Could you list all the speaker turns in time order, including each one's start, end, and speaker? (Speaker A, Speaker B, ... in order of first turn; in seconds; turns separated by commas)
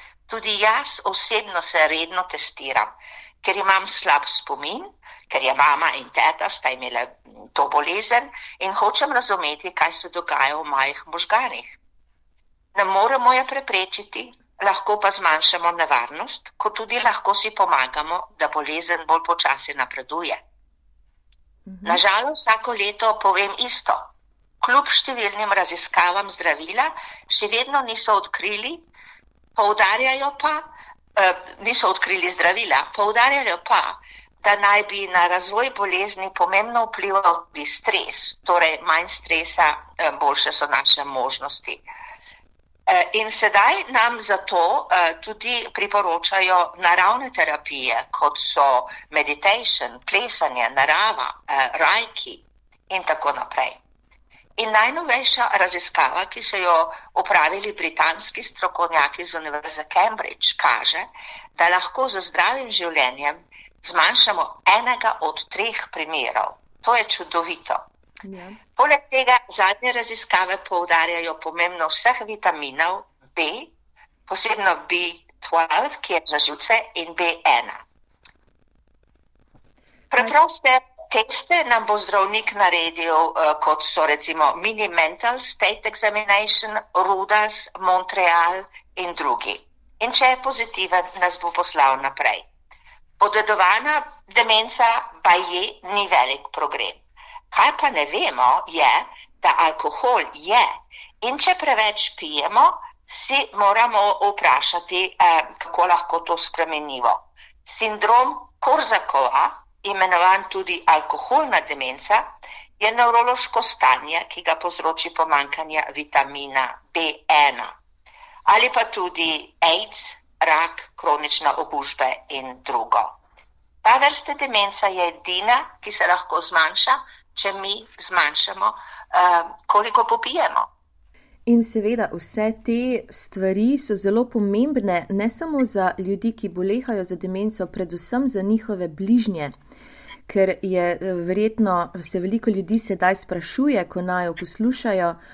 Speaker A: 0.3-11.8, Speaker A: 12.8-20.4, Speaker B: 21.7-22.0, Speaker A: 21.9-24.1, Speaker A: 24.6-28.8, Speaker A: 29.6-41.9, Speaker A: 42.9-53.8, Speaker A: 54.6-67.8, Speaker B: 68.2-68.6, Speaker A: 68.8-73.7, Speaker A: 74.3-77.8, Speaker A: 80.1-92.5, Speaker A: 93.2-112.3, Speaker A: 112.8-117.7, Speaker A: 118.5-123.2, Speaker A: 123.8-130.7, Speaker B: 131.5-139.5, Speaker B: 140.3-145.2